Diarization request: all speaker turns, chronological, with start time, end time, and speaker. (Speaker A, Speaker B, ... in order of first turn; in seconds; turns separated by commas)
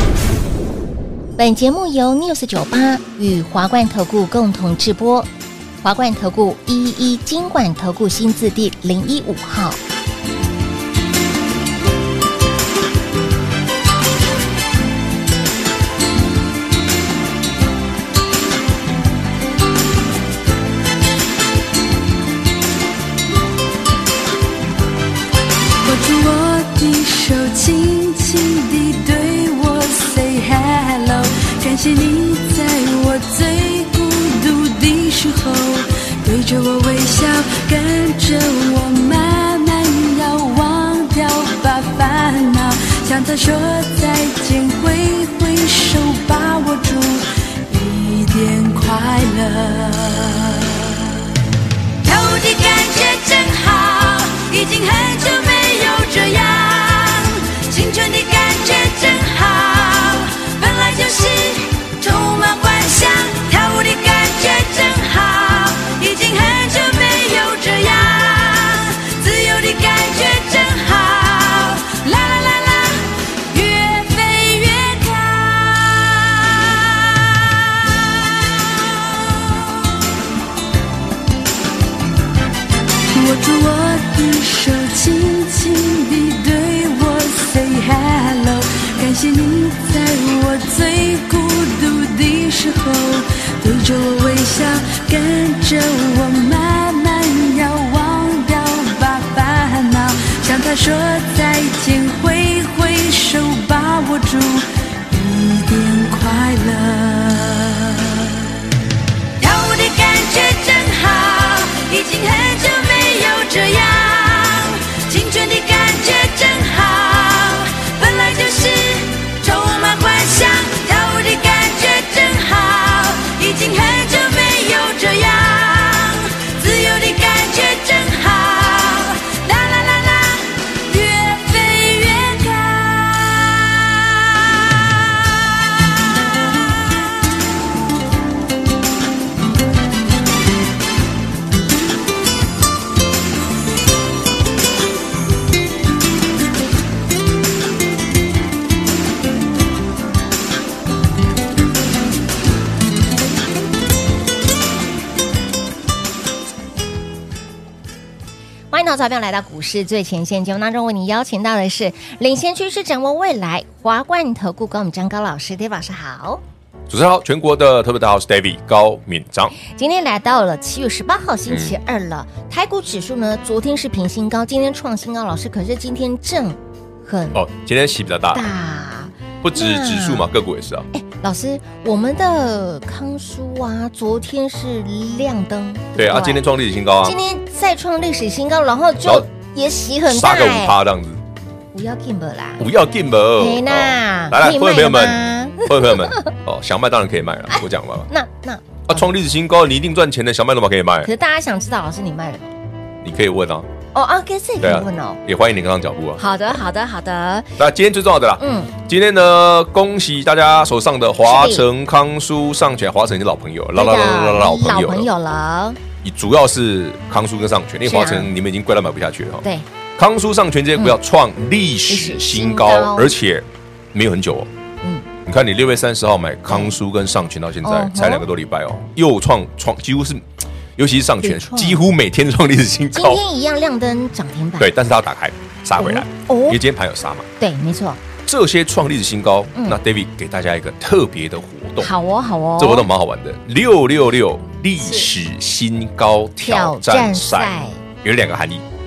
Speaker A: 1.4-5.3, Speaker A: 5.8-9.8, Speaker B: 25.8-51.1, Speaker B: 52.0-79.8, Speaker B: 83.1-108.5, Speaker B: 109.4-136.0, Speaker A: 158.7-166.4, Speaker C: 166.9-169.6, Speaker A: 169.6-177.4, Speaker C: 171.5-171.8, Speaker C: 177.3-178.5, Speaker A: 178.3-180.3, Speaker C: 179.4-180.9, Speaker A: 180.9-186.4, Speaker C: 186.0-187.2, Speaker A: 187.0-190.8, Speaker C: 190.1-191.2, Speaker A: 191.7-192.7, Speaker C: 192.6-198.1, Speaker A: 193.4-196.2, Speaker A: 198.1-199.1, Speaker C: 198.9-201.1, Speaker A: 201.0-202.5, Speaker C: 203.0-203.7, Speaker A: 203.9-205.2, Speaker C: 204.6-206.2, Speaker A: 206.2-207.6, Speaker C: 207.6-215.1, Speaker A: 208.4-208.7, Speaker A: 211.2-211.7, Speaker A: 213.8-215.8, Speaker C: 216.0-219.5, Speaker A: 217.8-218.3, Speaker C: 220.0-224.5, Speaker A: 221.9-223.2, Speaker A: 224.8-225.1, Speaker C: 225.3-233.2, Speaker A: 226.5-226.8, Speaker A: 227.6-228.3, Speaker A: 231.2-231.9, Speaker A: 232.9-234.7, Speaker C: 234.6-237.3, Speaker A: 235.8-236.6, Speaker A: 237.4-238.0, Speaker C: 238.2-241.9, Speaker A: 241.8-242.9, Speaker C: 242.6-248.7, Speaker A: 244.8-245.1, Speaker A: 246.4-247.8